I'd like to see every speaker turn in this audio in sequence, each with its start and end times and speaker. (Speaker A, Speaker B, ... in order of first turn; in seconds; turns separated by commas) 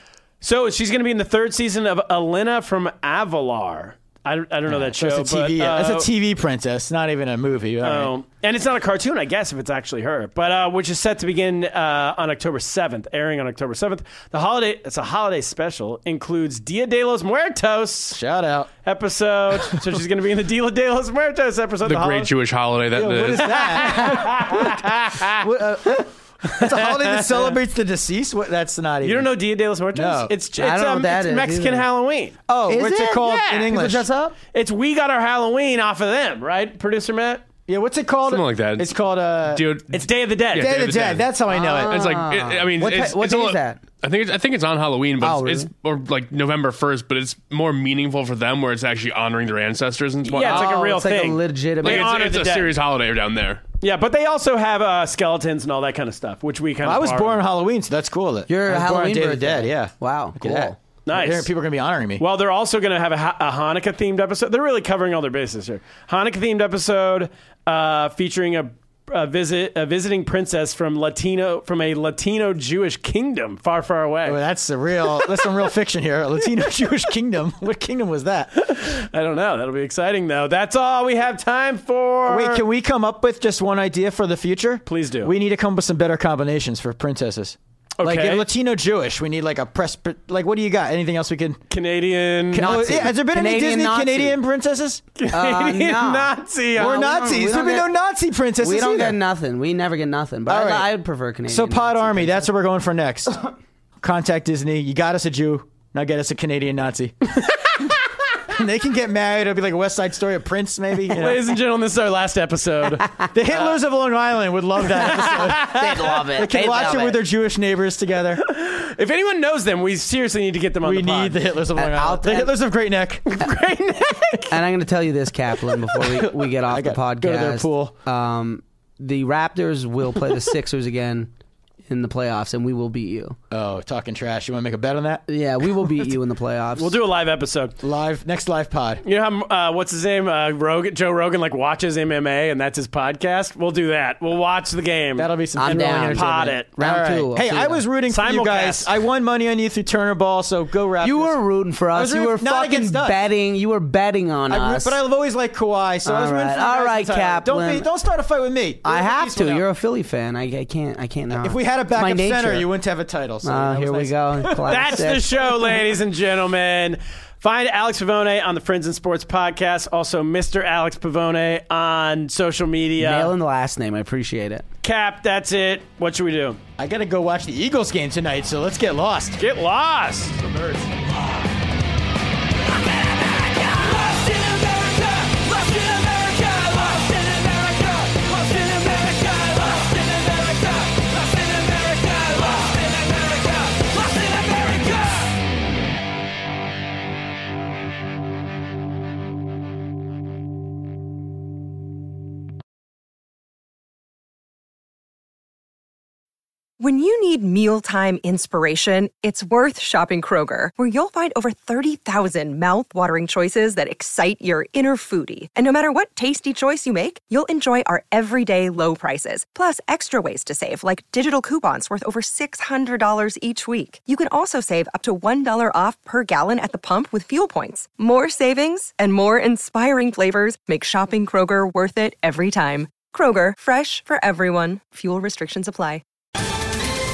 Speaker A: 0.4-6.1, Speaker B: 4.7-8.1, Speaker A: 7.8-18.2, Speaker B: 18.1-18.7, Speaker A: 18.8-22.3, Speaker C: 21.8-23.5, Speaker B: 22.9-29.3, Speaker A: 23.4-25.4, Speaker A: 26.6-27.6, Speaker A: 29.0-32.4, Speaker B: 29.9-30.3, Speaker D: 30.6-31.9, Speaker B: 32.5-34.1, Speaker D: 32.7-33.0, Speaker A: 32.9-33.7, Speaker D: 33.6-34.3, Speaker A: 34.5-37.4, Speaker B: 37.7-39.6, Speaker C: 38.3-38.9, Speaker C: 39.5-41.3, Speaker A: 39.9-40.9, Speaker B: 40.5-42.0, Speaker D: 41.5-43.8, Speaker C: 41.8-50.7, Speaker D: 45.2-45.7, Speaker A: 50.2-52.7, Speaker D: 50.4-52.1, Speaker C: 51.8-53.6, Speaker A: 53.8-57.4, Speaker B: 56.8-62.2, Speaker D: 58.5-60.8, Speaker A: 61.0-61.5, Speaker A: 62.2-74.4, Speaker B: 74.2-78.6, Speaker A: 75.2-75.6, Speaker A: 78.6-82.6, Speaker B: 82.3-91.6, Speaker A: 84.8-85.3, Speaker A: 88.0-88.5, Speaker A: 91.7-92.9, Speaker B: 92.5-95.0, Speaker D: 92.5-94.4, Speaker A: 95.2-97.0, Speaker D: 95.3-97.9, Speaker B: 96.7-99.2, Speaker D: 98.6-102.5, Speaker B: 100.5-100.9, Speaker B: 101.5-103.4, Speaker B: 104.0-107.8, Speaker B: 108.4-111.5, Speaker A: 111.1-113.7, Speaker B: 113.3-118.4, Speaker A: 115.0-115.5, Speaker D: 115.0-117.2, Speaker A: 118.4-121.4, Speaker B: 120.8-123.3, Speaker D: 121.7-122.5, Speaker A: 123.3-124.5, Speaker D: 124.5-131.3, Speaker B: 125.9-127.9, Speaker D: 131.9-133.4, Speaker B: 133.5-135.2, Speaker D: 135.3-137.0, Speaker A: 136.8-137.7, Speaker B: 137.8-139.0, Speaker A: 139.0-146.7, Speaker B: 145.2-151.4, Speaker D: 145.6-147.8, Speaker A: 148.1-148.9, Speaker D: 151.0-155.0, Speaker B: 151.9-153.2, Speaker B: 154.5-159.6, Speaker D: 156.0-157.9, Speaker D: 158.8-162.7, Speaker B: 161.3-165.1, Speaker D: 163.4-165.3, Speaker A: 164.7-173.3, Speaker D: 173.0-174.6, Speaker A: 174.8-176.6, Speaker B: 176.8-179.4, Speaker A: 179.4-180.5, Speaker B: 180.5-180.8, Speaker A: 185.6-187.0, Speaker A: 188.2-189.4, Speaker E: 206.8-236.0